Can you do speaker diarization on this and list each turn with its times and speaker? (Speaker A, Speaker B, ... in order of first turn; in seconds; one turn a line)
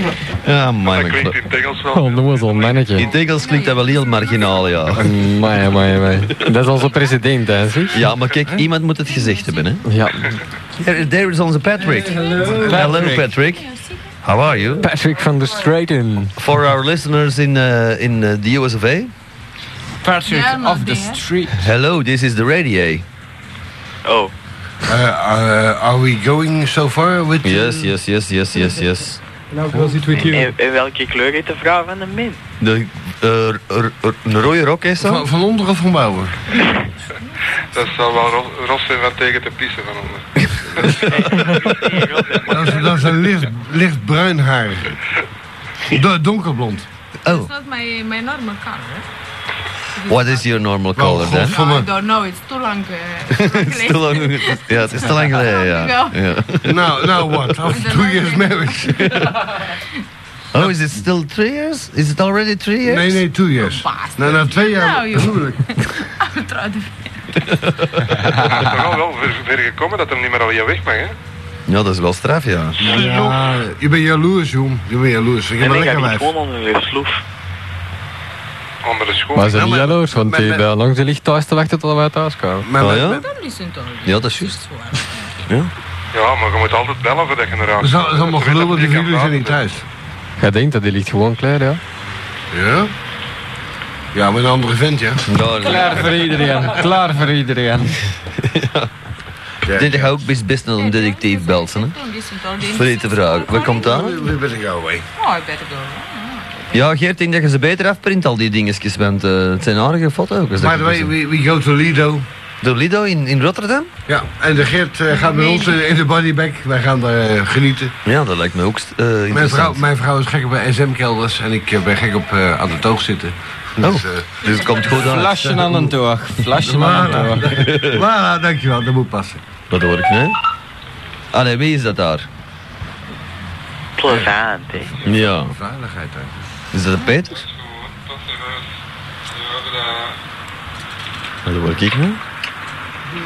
Speaker A: 0.4-1.4
Speaker B: 0.8-3.1
Speaker C: 1.9-3.1
Speaker A: 3.0-5.1
Speaker D: 3.1-4.9
Speaker C: 5.0-8.0
Speaker A: 7.9-9.8
Speaker D: 9.0-9.8
Speaker C: 9.8-10.4
Speaker A: 10.8-13.7
Speaker E: 11.9-12.8
Speaker D: 12.0-14.1
Speaker F: 12.4-13.3
Speaker A: 14.2-14.9
Speaker C: 14.8-16.3
Speaker A: 16.4-19.1
Speaker F: 20.0-21.6
Speaker D: 20.2-21.3
Speaker A: 21.5-23.0
Speaker G: 24.0-24.3
Speaker E: 24.8-27.9
Speaker A: 27.4-29.2
Speaker F: 29.7-30.5
Speaker E: 29.7-30.2
Speaker G: 30.1-32.4
Speaker A: 32.6-35.2
Speaker E: 35.0-36.5
Speaker B: 37.7-40.2
Speaker B: 40.8-41.5
Speaker G: 41.0-43.1
Speaker E: 42.5-45.0
Speaker E: 45.8-46.9
Speaker A: 47.2-47.5
Speaker D: 47.2-49.1
Speaker D: 49.9-50.5
Speaker A: 50.1-51.5
Speaker E: 50.9-51.9
Speaker D: 51.3-56.1
Speaker A: 53.3-56.9
Speaker E: 56.6-59.4
Speaker D: 57.7-59.8
Speaker A: 60.5-63.2
Speaker E: 62.8-65.8
Speaker D: 63.6-67.4
Speaker A: 67.5-67.9
Speaker B: 68.3-71.1
Speaker A: 71.7-72.8
Speaker E: 72.8-76.3
Speaker B: 72.8-73.3
Speaker G: 75.6-77.2
Speaker B: 78.8-79.6
Speaker C: 79.3-82.7
Speaker E: 79.5-80.7
Speaker E: 82.6-83.3
Speaker A: 82.8-83.2
Speaker D: 83.0-85.3
Speaker A: 84.0-84.5
Speaker A: 85.5-85.7
Speaker B: 86.1-89.6
Speaker E: 87.8-89.8
Speaker C: 90.4-91.8
Speaker E: 92.5-92.9
Speaker E: 94.1-95.2
Speaker A: 95.3-96.2
Speaker F: 95.6-98.0
Speaker A: 98.4-98.9
Speaker E: 99.6-100.2
Speaker A: 99.7-102.0
Speaker D: 100.8-104.2
Speaker A: 102.6-104.2
Speaker E: 103.7-105.1
Speaker D: 105.2-106.9
Speaker A: 106.7-111.1
Speaker E: 110.6-112.3
Speaker A: 112.6-113.9
Speaker E: 114.1-118.0
Speaker D: 115.1-115.7
Speaker A: 118.0-119.8
Speaker E: 119.3-124.7
Speaker A: 123.8-125.7
Speaker F: 125.0-127.5
Speaker E: 125.4-125.9
Speaker E: 126.5-129.4
Speaker A: 127.5-128.0
Speaker A: 129.7-130.4
Speaker A: 131.3-132.3
Speaker G: 134.0-134.9
Speaker E: 135.0-136.4
Speaker A: 135.0-135.5
Speaker A: 136.7-137.4
Speaker B: 137.3-138.6
Speaker B: 139.3-140.2
Speaker A: 141.4-142.2